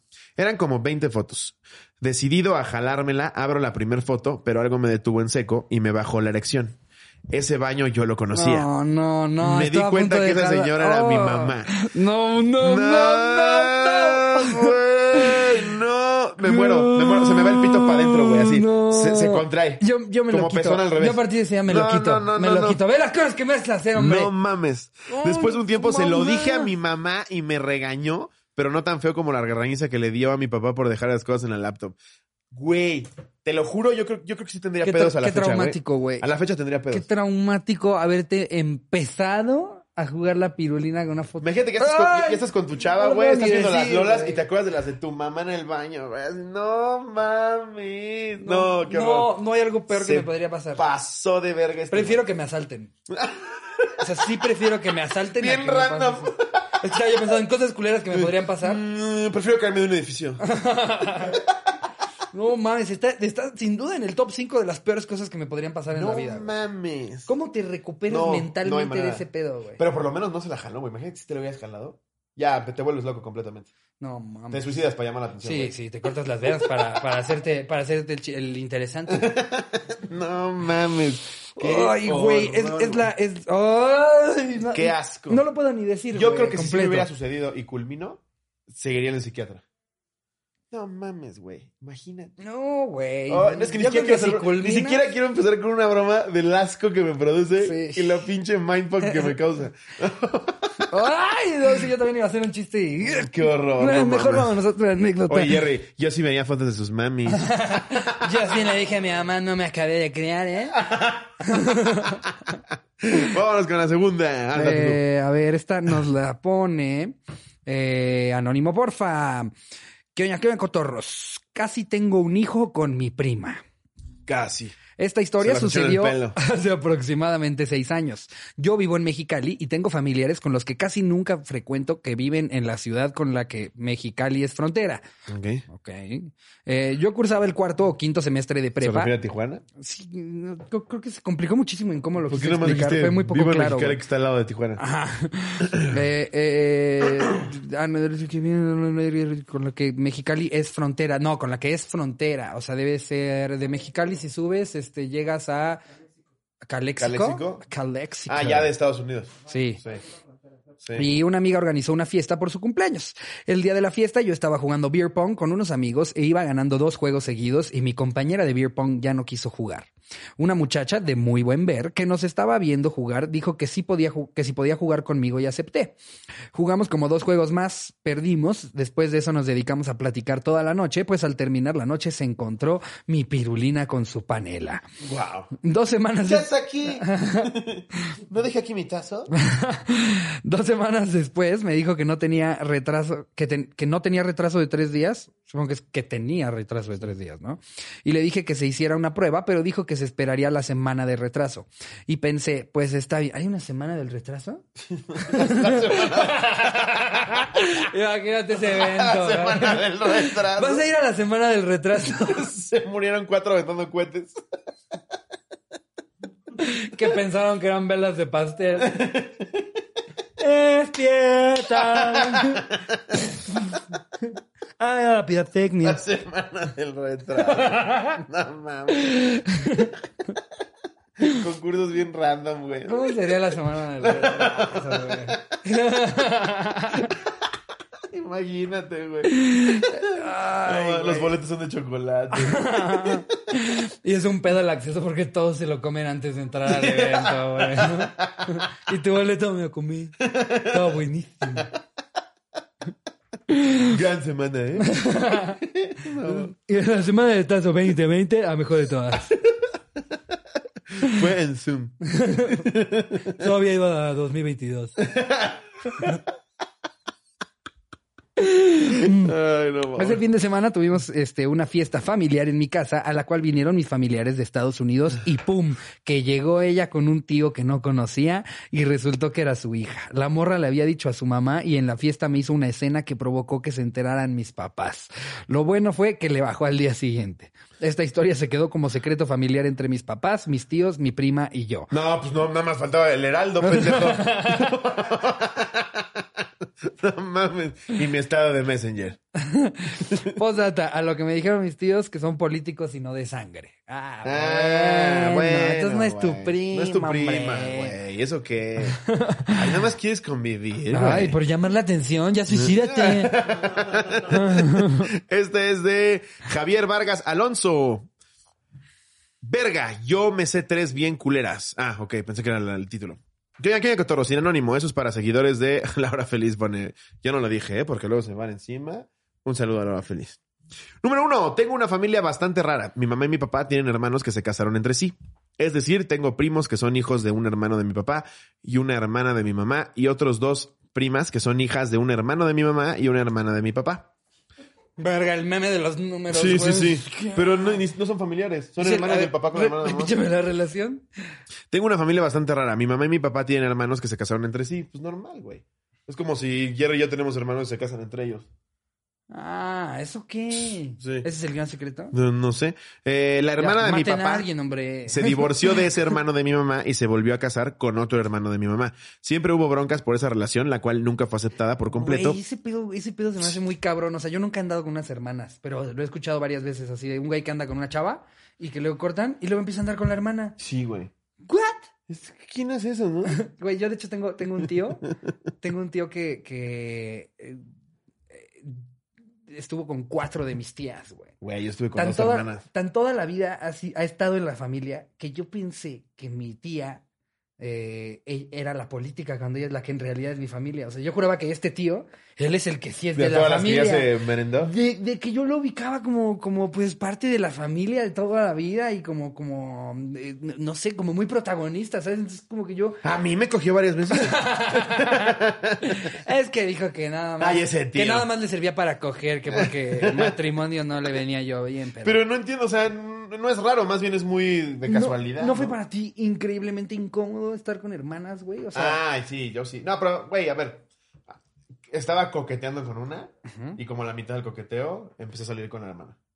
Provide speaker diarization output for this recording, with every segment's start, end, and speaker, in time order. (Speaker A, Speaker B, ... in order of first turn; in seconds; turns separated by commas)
Speaker A: 0.4-6.8, Speaker A: 7.3-8.7, Speaker B: 8.3-15.8, Speaker A: 9.4-11.8, Speaker A: 12.6-22.8, Speaker B: 16.4-24.3, Speaker A: 23.9-32.0, Speaker B: 25.1-26.7, Speaker A: 32.5-37.1, Speaker B: 34.8-36.3, Speaker B: 36.9-44.4, Speaker A: 41.4-49.4, Speaker B: 48.4-50.9, Speaker A: 49.9-52.2, Speaker B: 51.9-52.9, Speaker A: 53.1-54.3, Speaker B: 54.0-58.8, Speaker A: 55.4-56.7, Speaker A: 58.1-60.4, Speaker B: 60.4-61.4, Speaker A: 61.2-61.7, Speaker B: 62.3-66.5, Speaker A: 65.9-67.3, Speaker B: 67.3-69.8, Speaker A: 68.1-69.2, Speaker A: 69.8-73.7, Speaker B: 74.0-74.7, Speaker A: 74.5-75.7, Speaker B: 75.4-79.3, Speaker A: 76.6-76.9, Speaker A: 79.1-83.1, Speaker B: 81.6-87.1, Speaker A: 84.7-85.4, Speaker A: 86.1-89.6, Speaker A: 90.7-92.3, Speaker B: 92.4-95.0, Speaker A: 93.3-100.8, Speaker B: 97.6-98.2, Speaker B: 99.0-99.3, Speaker B: 100.9-105.6, Speaker A: 103.0-104.5, Speaker A: 105.3-108.2, Speaker B: 107.3-110.8, Speaker A: 110.8-112.1, Speaker B: 111.4-112.2, Speaker A: 113.0-115.0, Speaker B: 114.5-119.5, Speaker B: 120.2-123.6, Speaker A: 124.3-124.8, Speaker B: 125.0-135.0, Speaker A: 125.4-126.4, Speaker A: 135.3-135.7, Speaker B: 135.7-139.1, Speaker A: 138.8-139.6, Speaker B: 139.8-144.0, Speaker A: 142.3-144.8, Speaker B: 144.8-155.8, Speaker A: 145.6-146.0, Speaker B: 156.6-158.7, Speaker A: 157.0-157.6, Speaker A: 158.3-160.0, Speaker B: 159.5-159.8, Speaker A: 160.8-161.1, Speaker B: 160.9-175.9, Speaker B: 176.5-184.8, Speaker A: 185.0-185.5, Speaker B: 185.6-187.5, Speaker A: 186.3-189.3, Speaker B: 189.3-204.7, Speaker A: 204.9-207.8, Speaker B: 205.2-212.5, Speaker A: 208.6-210.8, Speaker A: 212.2-214.4, Speaker B: 216.6-219.0, Speaker A: 218.8-219.8, Speaker B: 220.4-222.7, Speaker A: 221.7-223.2, Speaker B: 223.4-224.3, Speaker B: 224.8-226.0, Speaker A: 225.8-229.2, Speaker B: 227.4-228.2, Speaker B: 228.9-229.9, Speaker A: 231.2-233.3, Speaker B: 232.8-237.1, Speaker A: 234.0-235.5, Speaker A: 238.1-243.2, Speaker B: 239.3-241.3, Speaker B: 242.3-251.7, Speaker A: 246.7-248.6, Speaker A: 250.2-251.0, Speaker B: 253.5-253.9, Speaker A: 253.8-256.5, Speaker B: 254.8-255.6, Speaker B: 256.2-259.4, Speaker A: 260.9-263.4, Speaker B: 262.1-262.7, Speaker B: 263.2-265.0, Speaker A: 265.0-266.2, Speaker B: 268.4-269.3, Speaker A: 268.9-270.2, Speaker B: 269.9-291.9, Speaker A: 291.9-299.2, Speaker B: 293.6-294.8, Speaker B: 299.4-308.0, Speaker A: 304.2-309.0, Speaker B: 309.0-309.8, Speaker A: 309.5-311.4, Speaker B: 310.9-313.4, Speaker A: 312.5-318.1, Speaker B: 314.3-315.1, Speaker A: 319.4-330.4, Speaker A: 331.0-344.1, Speaker B: 345.0-347.8, Speaker A: 346.3-350.2, Speaker B: 348.8-351.1, Speaker A: 351.7-358.5, Speaker B: 359.3-362.1, Speaker A: 361.0-361.3, Speaker A: 362.1-364.5, Speaker B: 363.6-365.9, Speaker A: 365.1-372.4, Speaker B: 371.9-380.6, Speaker A: 380.6-381.1, Speaker B: 381.5-381.9, Speaker A: 382.1-383.4, Speaker B: 383.3-385.1, Speaker B: 385.6-387.6, Speaker B: 388.3-388.8, Speaker B: 389.5-391.3, Speaker A: 391.4-392.6, Speaker B: 391.9-397.0, Speaker B: 397.6-413.0, Speaker A: 403.1-404.7, Speaker A: 413.0-415.9, Speaker B: 414.1-422.2, Speaker A: 417.4-418.3, Speaker A: 419.5-420.4, Speaker A: 422.0-425.7, Speaker B: 424.9-429.0, Speaker A: 428.7-436.2, Speaker B: 433.5-433.8